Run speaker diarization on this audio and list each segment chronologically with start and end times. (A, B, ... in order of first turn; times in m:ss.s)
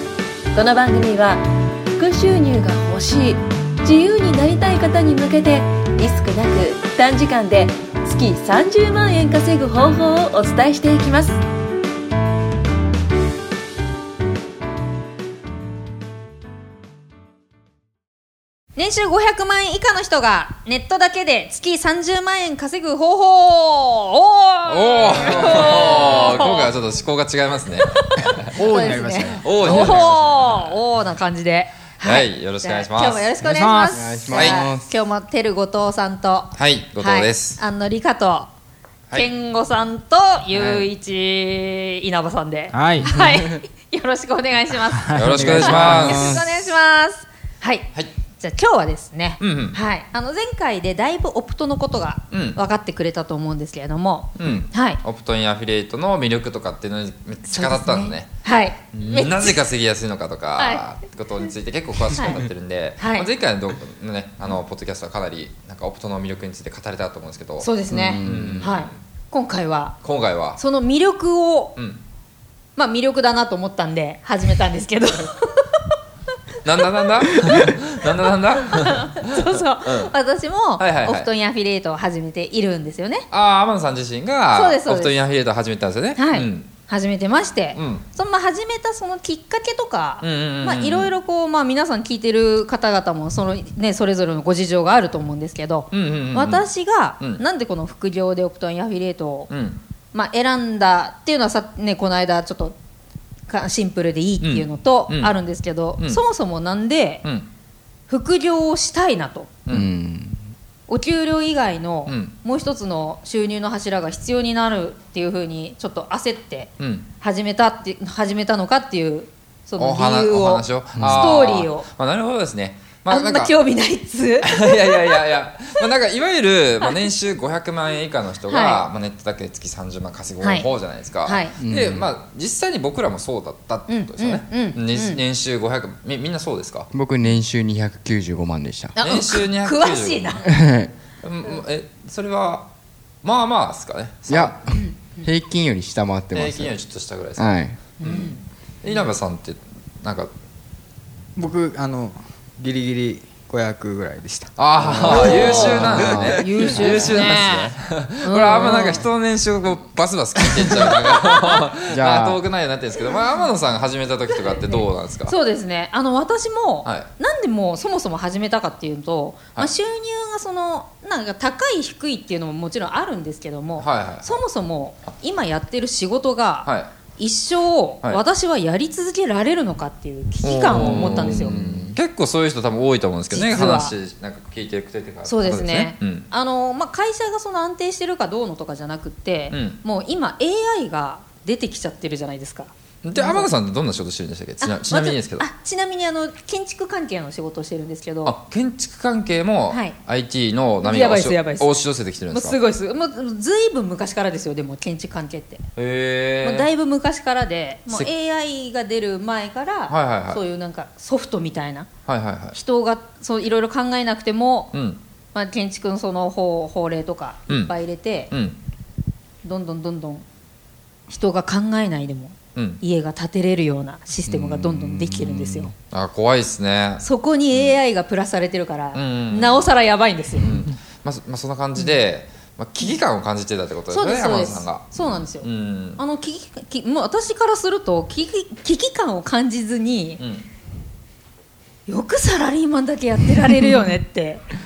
0:00.5-0:01.4 A
0:02.0-0:11.4 A
0:18.8-0:26.7 B
0:24.7-0:30.8 C
0:28.2-0:38.5 B
0:28.5-0:30.0 D
0:32.0-0:33.3 C
0:33.4-0:34.3 D
0:33.9-0:34.9 E
0:34.3-0:34.7 C
0:36.5-0:37.6 C
0:39.1-0:55.0 B
0:40.6-0:40.9 E
0:42.7-0:43.3 D
0:45.0-0:45.8 D
0:45.1-0:46.4 C
0:45.3-0:46.4 E
0:49.4-0:49.8 C
0:52.3-0:52.6 C
0:54.4-0:58.3 C
0:57.5-0:59.6 B
0:58.9-1:07.7 C
1:00.6-1:00.8 B
1:02.1-1:02.4 B
1:03.0-1:03.3 B
1:07.6-1:10.0 B
1:07.9-1:08.7 E
1:08.2-1:09.0 C
1:10.0-1:10.6 C
1:10.6-1:11.8 B
1:11.8-1:12.0 C
1:12.8-1:15.8 B
1:16.6-1:20.1 C
1:16.9-1:23.3 B
1:20.8-1:21.3 C
1:23.3-1:26.7 C
1:24.5-1:25.2 B
1:26.2-1:39.5 B
1:27.8-1:28.0 C
1:30.2-1:31.1 C
1:35.9-1:36.7 C
1:39.5-1:39.8 C
1:40.1-1:42.8 B
1:43.5-1:47.2 B
1:44.4-1:45.4 C
1:47.2-1:47.5 C
1:48.1-1:49.5 B
1:49.7-1:50.4 E
1:50.9-2:01.9 B
1:52.1-1:52.4 C
1:56.8-1:57.1 C
1:59.8-2:03.6 C
2:01.0-2:01.3 E
2:03.1-2:05.2 B
2:04.4-2:16.9 C
2:08.5-2:08.9 B
2:10.4-2:10.7 B
2:11.2-2:11.6 B
2:11.6-2:12.1 E
2:13.9-2:15.2 B
2:16.9-2:19.0 E
2:19.0-2:20.5 B
2:19.0-2:20.5 C
2:20.4-2:20.9 E
2:21.2-2:22.7 C
2:23.2-2:24.6 C
2:24.3-2:26.8 E
2:24.7-2:25.2 B
2:26.3-2:30.3 C
2:27.4-2:27.8 E
2:28.0-2:28.4 B
2:31.4-2:36.1 D
2:34.6-2:45.4 C
2:35.0-2:36.4 E
2:35.0-2:39.1 B
2:41.9-2:42.4 E
2:44.7-3:01.6 B
2:46.8-2:47.1 C
2:53.8-2:54.3 C
2:56.6-2:56.9 C
3:00.4-3:06.3 C
3:00.8-3:01.9 E
3:03.3-3:04.0 B
3:05.2-3:13.5 B
3:09.5-3:09.8 C
3:13.0-3:15.5 C
3:14.6-3:18.4 B
3:18.2-3:22.6 C
3:19.7-3:20.0 B
3:20.8-3:25.6 B
3:25.8-3:26.7 C
3:26.4-3:31.9 B
3:29.9-3:30.4 C
3:32.1-3:32.6 C
3:32.5-3:34.7 B
3:34.7-3:35.0 C
3:35.3-3:38.3 B
3:38.3-3:38.6 C
3:39.4-3:40.2 B
3:41.1-3:45.7 B
3:42.6-3:42.8 C
3:44.3-3:45.7 E
3:44.6-3:47.8 C
3:47.0-3:50.6 B
3:48.9-3:49.7 C
3:50.4-3:56.0 C
3:53.9-4:00.2 B
4:00.2-4:00.5 C
4:01.9-4:04.4 B